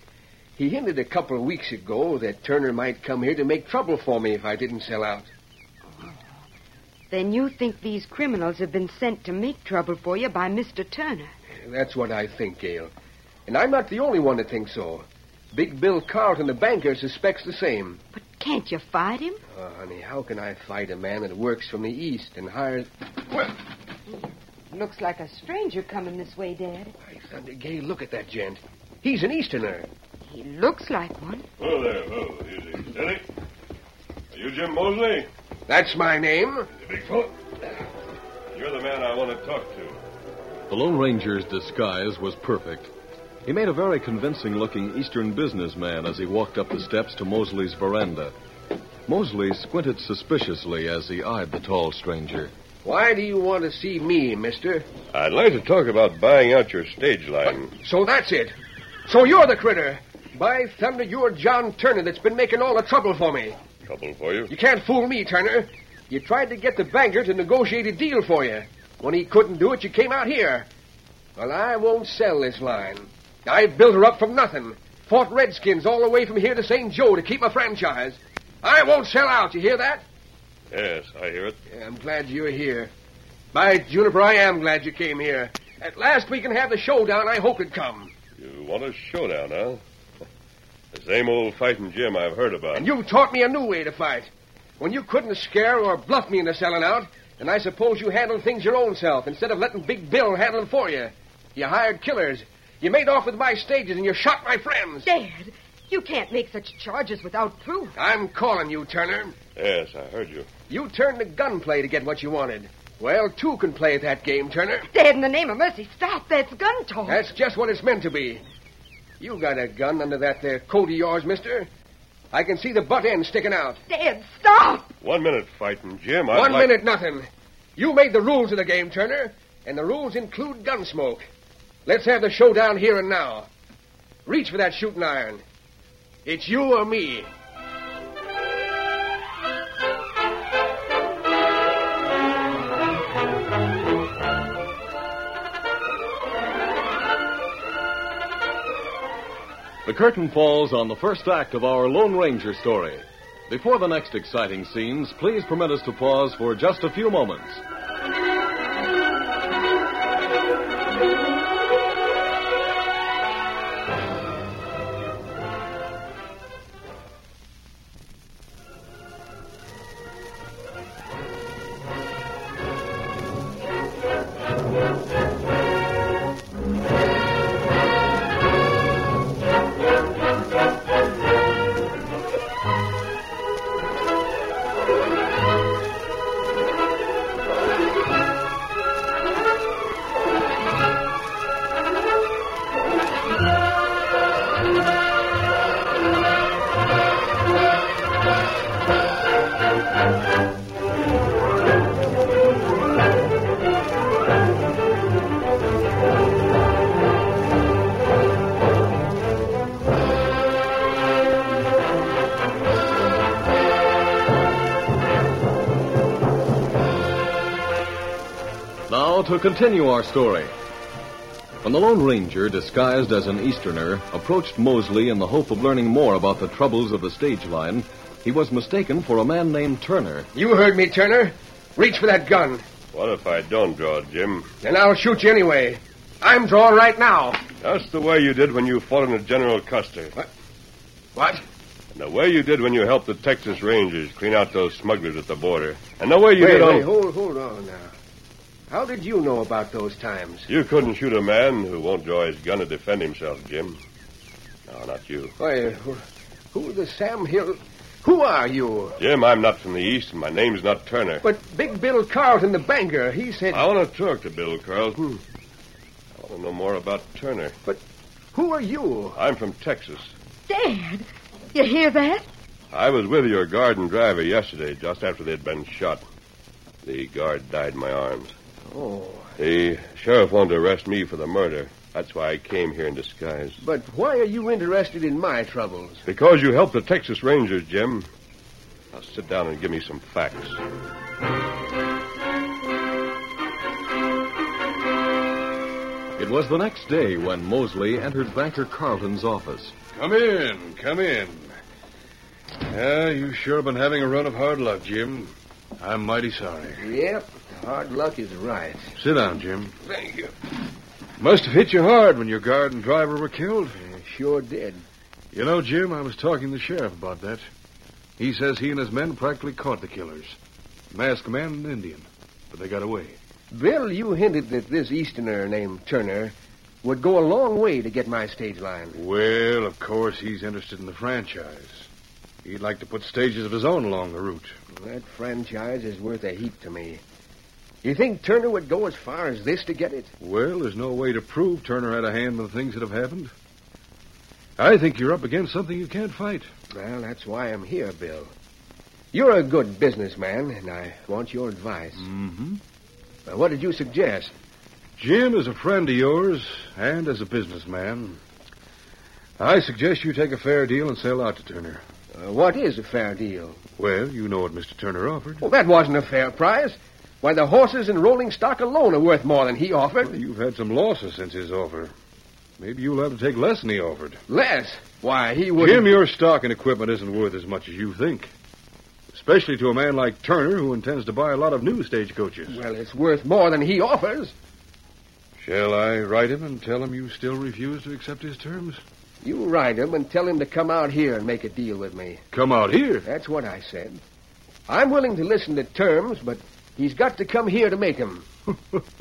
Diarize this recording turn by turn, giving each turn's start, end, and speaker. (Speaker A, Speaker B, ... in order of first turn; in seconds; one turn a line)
Speaker A: 0.6-5.3
Speaker B: 6.0-6.2
Speaker B: 7.1-11.3
Speaker A: 11.6-12.9
Speaker A: 13.5-18.0
Speaker B: 18.1-19.4
Speaker A: 19.5-22.9
Speaker B: 24.7-26.9
Speaker A: 27.1-29.9
Speaker B: 30.2-31.4
Speaker C: 31.6-33.2
Speaker C: 34.3-35.3
Speaker A: 35.7-36.7
Speaker C: 36.8-37.3
Speaker C: 38.5-40.0
Speaker D: 40.7-42.9
Speaker D: 43.5-48.3
Speaker D: 49.1-52.5
Speaker A: 52.8-54.9
Speaker C: 55.1-57.7
Speaker A: 57.7-58.5
Speaker A: 59.0-63.6
Speaker C: 63.8-64.5
Speaker A: 64.5-70.7
Speaker A: 71.4-80.0
Speaker C: 80.7-81.6
Speaker A: 81.7-82.9
Speaker A: 83.5-88.1
Speaker C: 88.4-89.8
Speaker C: 90.9-92.9
Speaker A: 92.7-105.1
Speaker B: 105.0-108.0
Speaker A: 108.0-109.3
Speaker C: 109.5-110.5
Speaker A: 110.7-114.9
Speaker B: 114.9-117.2
Speaker A: 117.0-118.4
Speaker A: 119.2-121.7
Speaker A: 122.3-123.8
Speaker B: 123.9-124.9
Speaker C: 125.0-126.7
Speaker A: 126.3-131.3
Speaker A: 131.8-133.5
Speaker A: 134.2-135.4
Speaker A: 136.2-137.3
Speaker D: 149.8-157.6
Speaker D: 218.9-220.5
Speaker D: 221.6-230.3
Speaker A: 230.3-232.6
Speaker C: 232.9-234.5
Speaker A: 234.6-237.4
Speaker C: 237.6-240.1
Speaker A: 241.1-241.4
Speaker C: 241.9-246.8
Speaker A: 246.4-247.9
Speaker A: 248.7-250.5
Speaker C: 250.5-253.8
Speaker C: 254.7-255.3
Speaker A: 255.4-258.9
Speaker C: 259.0-261.2
Speaker A: 261.2-263.6
Speaker C: 263.5-265.2
Speaker C: 266.2-267.6
Speaker A: 268.3-269.2
Speaker C: 269.1-270.1
Speaker B: 270.5-272.2
Speaker C: 272.7-276.0
Speaker C: 276.8-278.3
Speaker A: 278.7-279.3
Speaker C: 279.4-283.6
Speaker A: 283.6-286.0
Speaker C: 286.1-288.1
Speaker C: 288.9-290.6
Speaker D: 296.2-299.7
Speaker E: 299.9-301.5
Speaker E: 302.6-306.8
Speaker A: 306.8-308.9
Speaker E: 308.9-309.7
Speaker A: 309.9-310.3
Speaker E: 311.2-313.8
Speaker A: 313.8-314.8
Speaker E: 315.3-317.4
Speaker E: 318.2-320.4
Speaker E: 320.9-323.2
Speaker A: 323.5-329.0
Speaker E: 328.9-331.9
Speaker E: 332.4-334.5
Speaker A: 334.8-337.0
Speaker A: 337.8-340.1
Speaker E: 340.2-343.3
Speaker E: 344.6-346.5
Speaker A: 346.7-348.3
Speaker A: 349.1-352.1
Speaker E: 352.0-352.6
Speaker A: 353.2-354.3
Speaker E: 355.0-358.2
Speaker E: 359.4-361.8
Speaker A: 362.1-363.6
Speaker E: 363.8-365.4
Speaker A: 365.4-370.1
Speaker E: 370.0-371.9
Speaker E: 372.6-374.2
Speaker A: 374.3-375.9
Speaker E: 375.6-378.3
Speaker E: 379.1-382.6
Speaker A: 382.5-384.3
Speaker E: 385.4-388.8
Speaker A: 389.2-392.2
Speaker E: 392.3-393.1
Speaker A: 393.0-394.0
Speaker A: 394.7-398.3